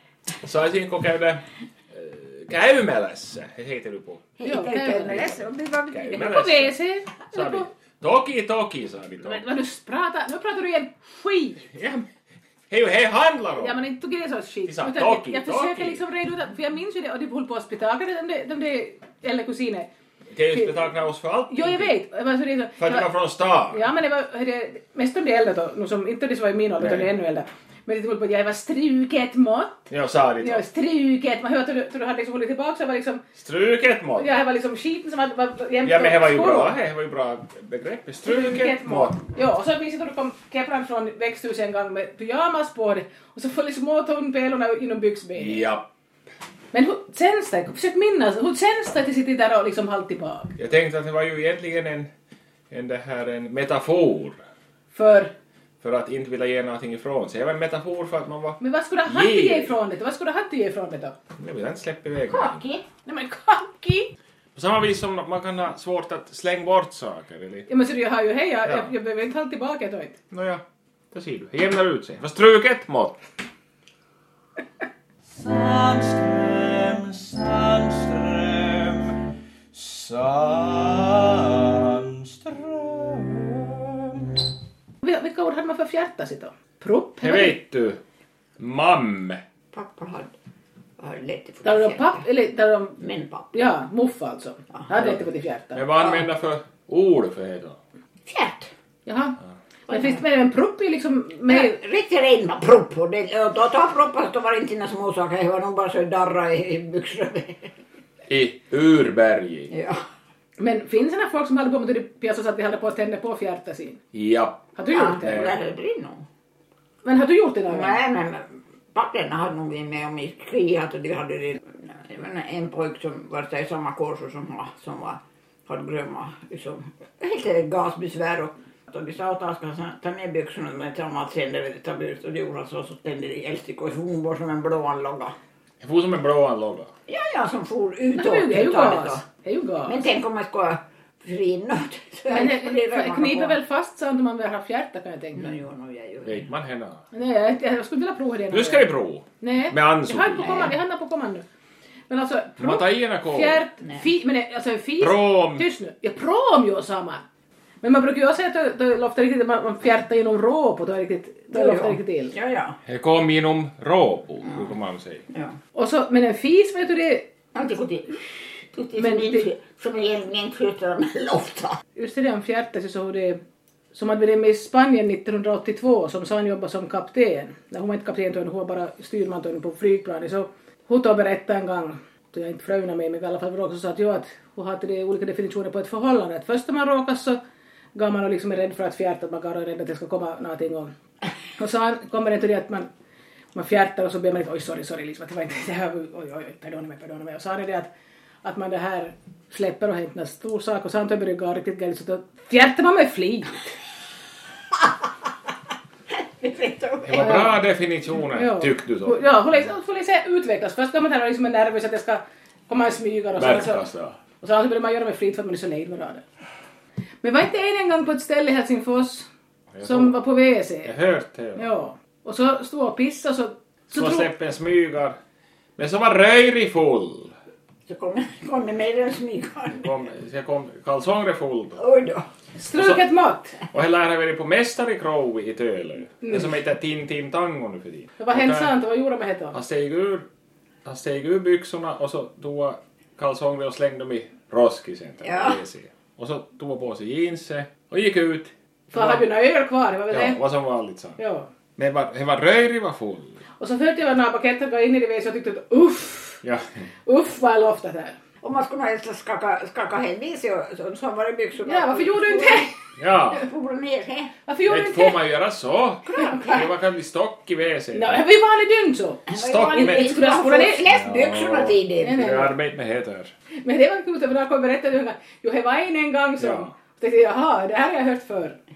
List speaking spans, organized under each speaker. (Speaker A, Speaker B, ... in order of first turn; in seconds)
Speaker A: 0.4-4.3, 5.0-6.8, 7.3-9.4, 11.7-12.0, 12.7-13.8, 14.7-16.0, 20.3-21.9, 22.8-23.9, 26.8-27.1, 29.9-30.6, 33.4-34.3, 35.8-39.2, 45.3-45.9, 50.6-52.1, 52.7-54.4, 55.8-59.7, 61.4-62.6, 64.5-67.7, 68.7-68.9, 70.3-73.2, 87.2-88.0, 88.6-89.4, 95.7-97.8, 108.3-109.7, 114.1-115.5, 135.8-136.9, 146.2-147.0, 148.5-150.7, 152.6-153.7, 155.0-155.6, 162.8-165.2, 207.1-209.3, 213.4-214.2, 219.7-220.1, 220.8-221.7, 223.9-225.2, 225.8-227.3, 229.7-231.8, 232.7-233.0, 233.7-238.7, 239.5-240.3, 240.8-249.2, 250.1-251.2, 251.8-253.4, 256.4-256.8, 263.0-263.5, 264.7-268.2, 269.3-270.1, 270.6-273.3, 276.4-276.7
Speaker B: 4.4-6.4, 62.3-62.9, 89.7-90.3, 91.0-92.2, 93.0-93.5, 98.2-98.7, 99.9-100.2, 101.5-107.7, 109.7-110.0, 114.9-116.2, 117.7-135.3, 137.1-139.2, 139.8-143.6, 145.3-146.5, 150.4-150.7, 153.8-154.1, 161.5-162.8, 167.5-168.2, 168.7-171.8, 206.2-207.5, 227.9-229.9, 231.8-232.2, 245.2-245.6, 258.4-262.7, 263.3-264.3, 266.0-266.7, 269.2-272.3
Speaker C: 4.4-5.4, 6.1-7.7, 9.2-11.7, 13.6-19.9, 20.5-20.8, 21.5-23.1, 23.7-33.2, 34.2-36.7, 38.2-45.6, 46.7-50.5, 54.9-55.3, 58.6-61.1, 63.0-64.1, 67.7-70.2, 85.0-87.6, 91.6-93.0, 93.5-95.8, 99.0-99.4, 99.9-101.8, 110.6-114.0, 114.8-115.5, 117.0-118.0, 138.1-140.1, 142.3-145.5, 147.1-148.9, 149.4-151.4, 152.1-157.2, 157.8-162.3, 165.7-167.3, 169.0-169.5, 171.9-173.4, 173.9-187.4, 187.9-190.9, 191.6-192.9, 193.5-197.9, 198.4-203.7, 207.1-207.6, 208.3-213.8, 214.4-216.2, 217.2-219.3, 219.8-220.9, 221.6-224.3, 232.6-233.6, 238.2-239.6, 248.9-250.4, 251.2-251.5, 253.6-256.4, 257.1-258.2, 261.6-262.7, 264.4-265.2, 267.9-270.9, 272.0-272.5, 273.6-278.6
Speaker D: 75.3-79.2, 79.7-84.3